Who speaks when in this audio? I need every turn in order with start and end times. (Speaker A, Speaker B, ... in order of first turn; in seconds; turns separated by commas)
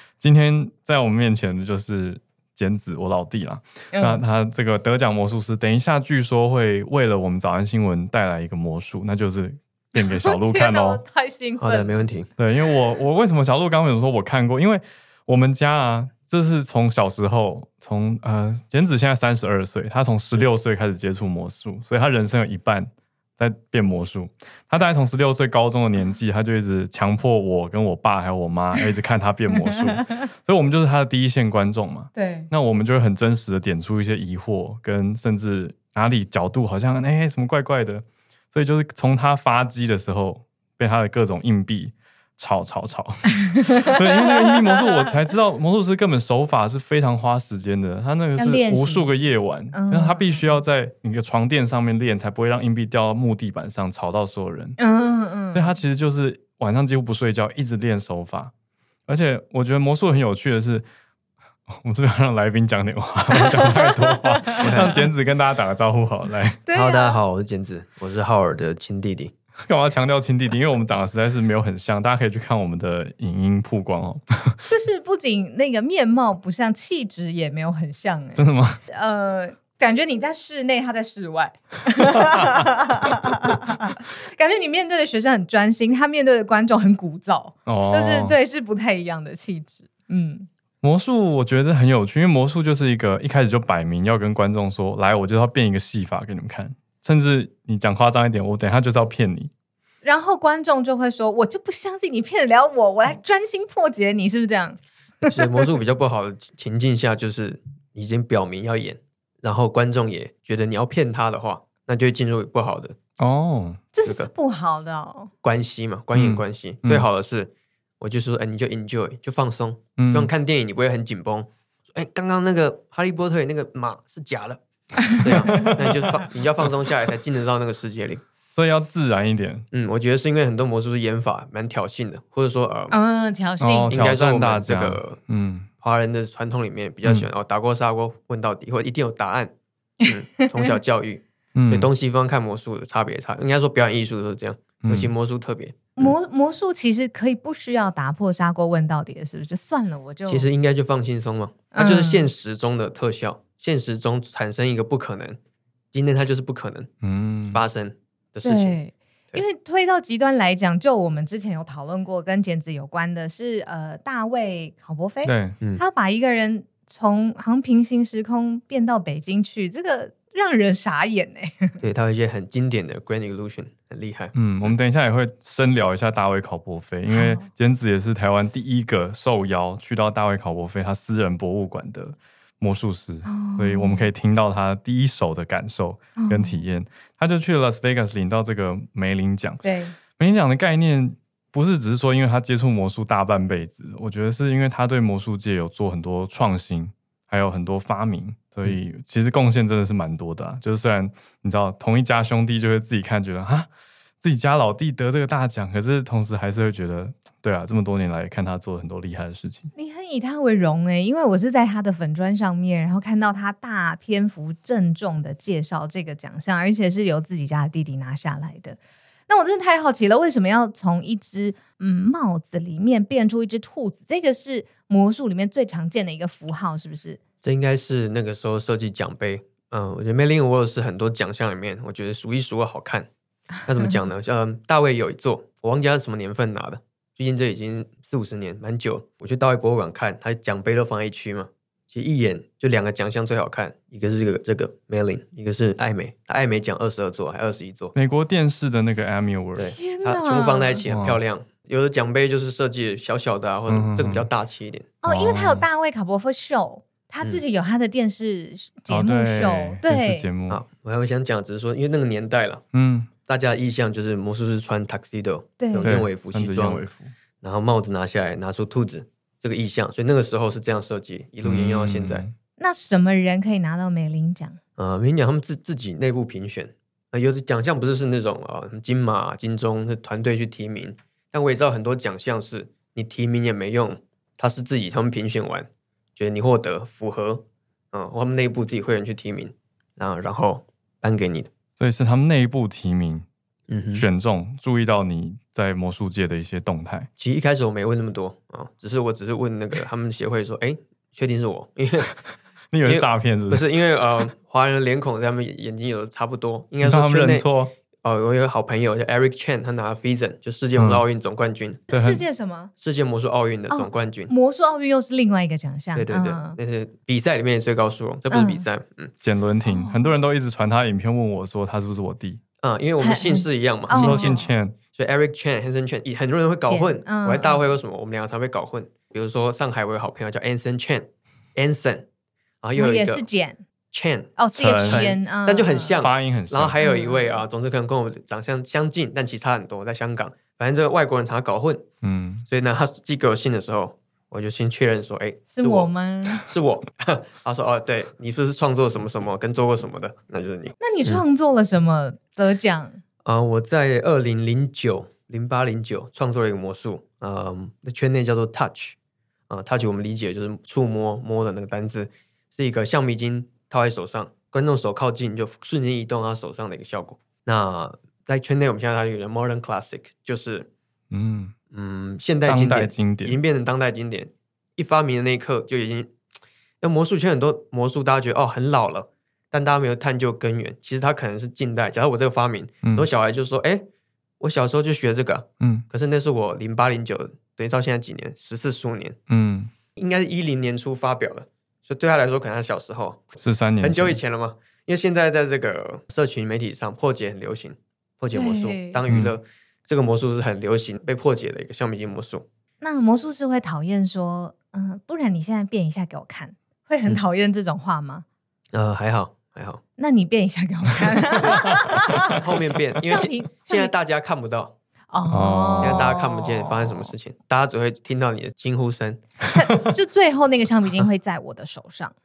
Speaker A: 0.2-11.0, Speaker B: 3.9-4.2, Speaker B: 10.0-12.0, Speaker C: 11.6-12.3, Speaker A: 12.4-54.8, Speaker B: 32.1-32.5, Speaker B: 43.6-44.6, Speaker B: 48.4-49.1, Speaker B: 49.7-50.5, Speaker B: 54.8-55.8, Speaker A: 55.5-58.5, Speaker A: 59.1-60.9, Speaker A: 61.7-66.6, Speaker B: 63.3-65.0, Speaker C: 64.6-65.0, Speaker B: 66.7-67.2, Speaker C: 66.7-69.3, Speaker A: 69.7-74.6, Speaker B: 74.7-90.5, Speaker A: 78.4-78.8, Speaker A: 82.1-82.6, Speaker A: 87.7-88.4, Speaker A: 90.8-99.5, Speaker B: 100.0-105.4, Speaker C: 105.3-113.0, Speaker A: 113.2-113.9, Speaker B: 113.9-115.3, Speaker C: 114.0-114.3, Speaker C: 115.4-128.2, Speaker A: 116.2-117.1, Speaker A: 120.0-120.3, Speaker B: 125.1-125.8, Speaker A: 125.2-126.2, Speaker A: 128.5-129.7, Speaker C: 129.7-132.9, Speaker B: 132.9-133.9, Speaker A: 133.6-135.7, Speaker C: 133.9-135.2, Speaker C: 135.8-139.5, Speaker A: 137.0-137.3, Speaker B: 140.0-140.7, Speaker C: 140.1-146.1, Speaker A: 141.6-141.9, Speaker A: 144.8-145.1, Speaker B: 146.0-150.5, Speaker C: 150.3-155.4, Speaker B: 151.7-152.3, Speaker C: 155.9-156.9, Speaker A: 157.0-157.6, Speaker C: 157.5-158.8, Speaker B: 158.4-171.8, Speaker A: 165.2-165.6, Speaker C: 171.8-174.7, Speaker A: 174.3-203.7, Speaker B: 177.1-177.5, Speaker B: 183.2-184.1, Speaker B: 186.2-186.6, Speaker B: 189.6-189.9, Speaker A: 204.2-209.7, Speaker B: 209.8-227.2, Speaker C: 227.4-233.1, Speaker C: 233.7-247.9, Speaker A: 247.9-249.8, Speaker C: 249.6-254.9, Speaker B: 249.7-250.8, Speaker A: 250.9-251.2, Speaker A: 253.7-254.3, Speaker B: 255.0-260.3, Speaker A: 255.1-255.7, Speaker A: 258.9-260.6, Speaker C: 260.5-262.6, Speaker A: 262.7-263.1, Speaker C: 263.3-266.8, Speaker B: 265.6-266.0, Speaker A: 265.8-267.1, Speaker C: 267.4-272.2, Speaker A: 271.4-272.3, Speaker B: 272.6-274.6, Speaker C: 274.8-291.5, Speaker A: 291.8-293.2, Speaker C: 293.7-294.1, Speaker A: 293.9-297.1, Speaker C: 297.2-302.1, Speaker A: 302.7-303.7, Speaker C: 302.9-307.5, Speaker A: 306.8-307.7, Speaker C: 308.0-311.8, Speaker A: 310.8-311.0, Speaker B: 311.9-312.7, Speaker A: 311.9-312.2, Speaker C: 312.8-314.3, Speaker B: 313.7-316.6, Speaker C: 315.9-319.1, Speaker B: 318.3-318.7, Speaker A: 319.2-322.4, Speaker B: 319.7-320.1, Speaker C: 322.6-324.4, Speaker B: 323.0-324.5, Speaker A: 323.9-324.8, Speaker C: 324.9-332.1, Speaker B: 326.6-327.6, Speaker C: 332.6-333.2, Speaker B: 332.8-333.6, Speaker C: 333.9-341.9, Speaker B: 334.4-336.1, Speaker A: 334.6-335.1, Speaker A: 336.0-336.8, Speaker B: 336.8-337.4, Speaker A: 342.0-342.5, Speaker C: 342.5-351.2, Speaker B: 345.5-346.5, Speaker B: 350.8-353.0, Speaker C: 353.2-359.0, Speaker C: 359.5-370.7, Speaker A: 371.1-371.5, Speaker C: 371.7-376.1, Speaker A: 372.4-373.4, Speaker C: 376.8-383.9, Speaker A: 382.8-383.1, Speaker C: 384.4-389.2, Speaker A: 389.3-389.7, Speaker C: 389.9-402.5, Speaker A: 393.4-394.2, Speaker B: 398.3-399.0, Speaker A: 399.1-399.4, Speaker B: 402.8-408.2, Speaker C: 408.7-409.8, Speaker B: 410.0-412.4, Speaker C: 412.3-414.8, Speaker B: 412.9-413.9, Speaker B: 415.1-417.1, Speaker A: 415.3-416.1, Speaker C: 415.8-419.2, Speaker B: 419.5-422.1